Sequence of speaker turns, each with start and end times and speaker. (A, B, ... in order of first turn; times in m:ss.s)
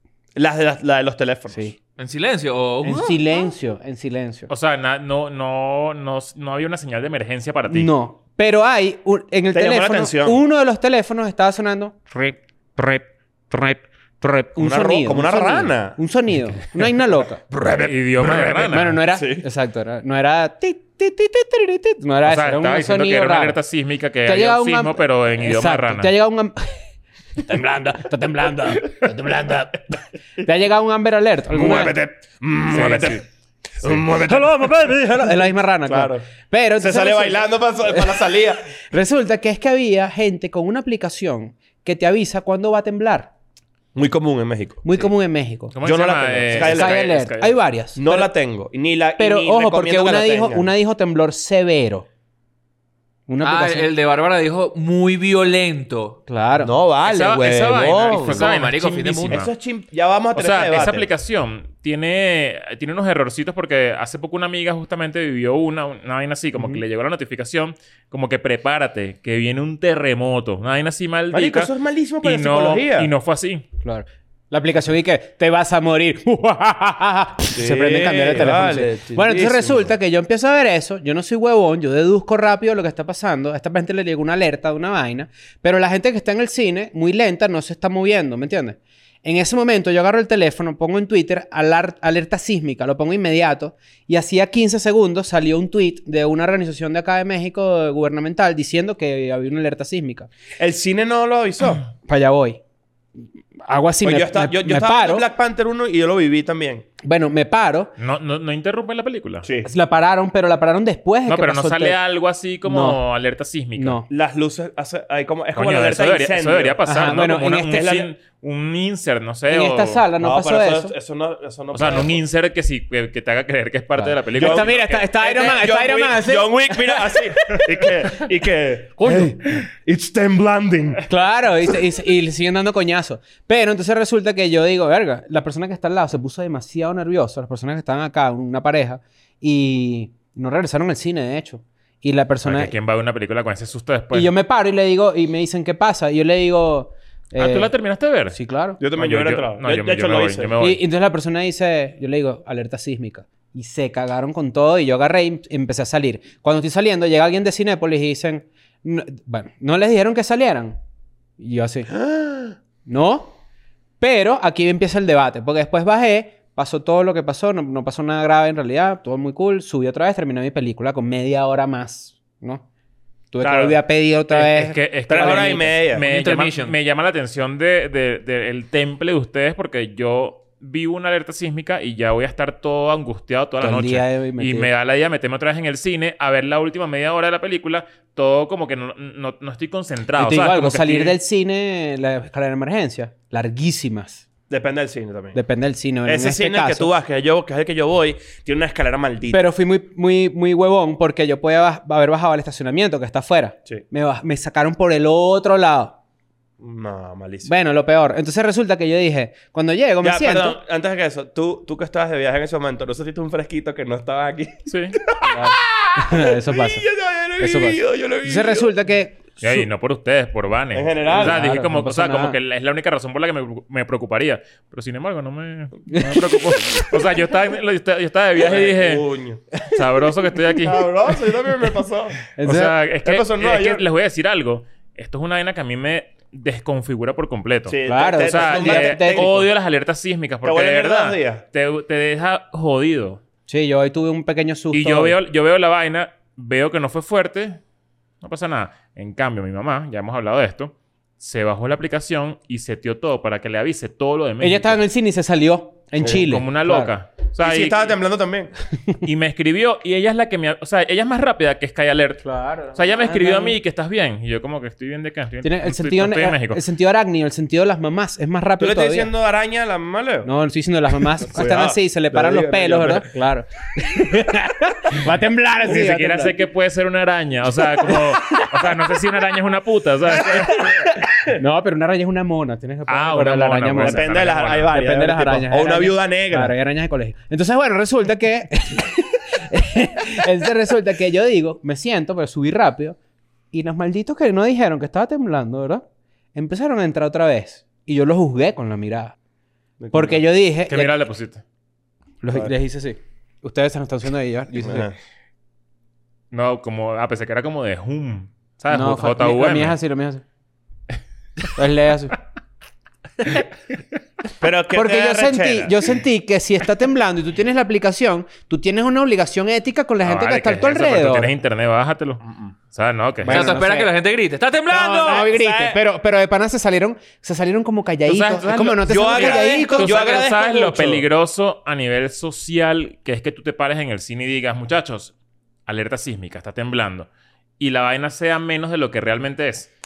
0:00.3-0:01.7 A
0:02.0-0:03.2 B
0:02.8-0:04.5 C
0:04.5-0:07.9 D
0:07.7-0:17.4 C
0:09.5-0:10.4 A
0:14.6-0:16.0 A
0:17.5-0:19.4 A
0:17.7-0:19.0 D
0:18.6-0:23.6 C
0:22.2-0:26.1 D
0:24.2-0:26.8 C
0:27.4-0:31.9 C
0:31.5-0:33.2 A
0:32.7-0:33.2 D
0:33.8-0:36.2 A
0:34.1-0:38.1 C
0:36.8-0:38.6 A
0:38.9-0:43.3 C
0:43.9-0:45.0 A
0:44.8-0:45.7 C
0:45.7-0:47.6 D
0:45.8-0:47.0 A
0:46.5-0:48.3 C
0:48.0-0:50.7 A
0:49.2-0:52.0 C
0:53.3-0:53.9 C
0:53.4-0:56.2 B
0:56.3-0:56.7 C
0:56.6-0:58.5 A
0:57.0-0:59.5 D
0:58.0-0:59.4 B
0:59.3-1:01.1 A
1:00.3-1:11.7 D
1:06.6-1:06.8 C
1:11.3-1:13.1 A
1:12.2-1:13.6 D
1:13.8-1:40.3 C
1:17.5-1:19.9 A
1:40.6-1:41.8 A
1:42.1-1:42.6 C
1:43.7-1:45.3 C
1:44.0-1:46.8 A
1:47.0-1:47.9 C
1:48.0-1:49.5 D
1:49.4-1:49.7 A
1:49.6-1:52.0 C
1:51.3-1:54.0 D
1:52.6-1:53.0 C
1:53.8-1:54.1 C
1:54.1-1:56.8 A
1:55.5-2:00.0 D
1:56.8-1:57.8 C
1:57.7-1:58.1 A
1:59.5-2:00.9 C
2:00.2-2:02.2 A
2:01.7-2:05.1 D
2:04.0-2:07.9 C
2:04.3-2:11.0 A
2:09.0-2:09.4 C
2:11.1-2:22.7 C
2:22.4-2:24.3 D
2:24.1-2:27.7 C
2:27.4-2:28.4 D
2:28.3-2:28.8 C
2:28.8-2:30.5 A
2:29.0-2:30.8 D
2:30.6-2:40.8 C
2:41.4-2:41.9 C
2:41.9-2:42.6 A
2:42.8-2:43.4 C
2:44.0-2:52.6 C
2:53.3-2:55.6 C
2:53.4-2:53.8 A
2:54.3-3:11.2 D
2:55.1-2:56.0 A
2:56.0-2:56.7 B
3:03.6-3:04.7 C
3:10.2-3:14.2 C
3:14.5-3:15.4 A
3:15.3-3:16.9 C
3:16.0-3:19.4 A
3:19.3-3:26.0 C
3:26.6-3:27.5 A
3:27.4-3:30.6 C
3:30.0-3:38.7 A
3:34.7-3:35.0 D
3:35.2-3:36.9 C
3:37.4-3:39.6 C
3:39.4-3:49.0 D
3:40.7-3:41.4 A
3:41.1-3:42.4 C
3:45.9-3:46.9 C
3:48.4-3:49.4 A
3:49.6-3:51.2 D
3:50.6-3:52.2 A
3:52.4-3:52.7 C
3:52.4-4:03.2 D
3:53.0-3:53.8 A
3:57.7-3:59.5 A
3:57.8-3:59.3 C
4:00.4-4:01.4 A
4:03.5-4:05.2 C
4:04.7-4:07.6 D
4:08.2-4:14.8 D
4:14.4-4:16.9 C
4:16.0-4:18.0 D
4:17.4-4:18.5 A
4:19.0-4:26.6 D
4:22.2-4:23.6 C
4:25.4-4:29.1 C
4:28.6-4:30.3 A
4:30.2-4:36.3 C
4:31.2-4:33.1 A
4:35.6-4:40.7 D
4:37.8-4:38.5 C
4:40.3-4:44.1 C
4:42.9-4:44.7 D
4:43.8-4:46.5 A
4:44.7-4:53.0 C
4:53.5-4:55.8 C
4:56.3-4:59.2 C
4:59.8-5:00.2 A
4:59.9-5:00.9 C
5:00.7-5:01.4 D
5:02.2-5:04.9 C
5:04.6-5:05.0 A
5:06.3-5:09.8 D
5:08.7-5:10.2 C
5:11.5-5:12.2 C
5:14.4-5:15.8 A
5:14.7-5:21.3 C
5:20.0-5:23.6 D
5:23.2-5:23.9 C
5:23.3-5:25.3 B
5:24.7-5:30.0 C
5:24.7-5:25.8 A
5:28.0-5:35.1 D
5:28.8-5:31.0 A
5:35.7-5:37.1 D
5:37.6-5:39.7 D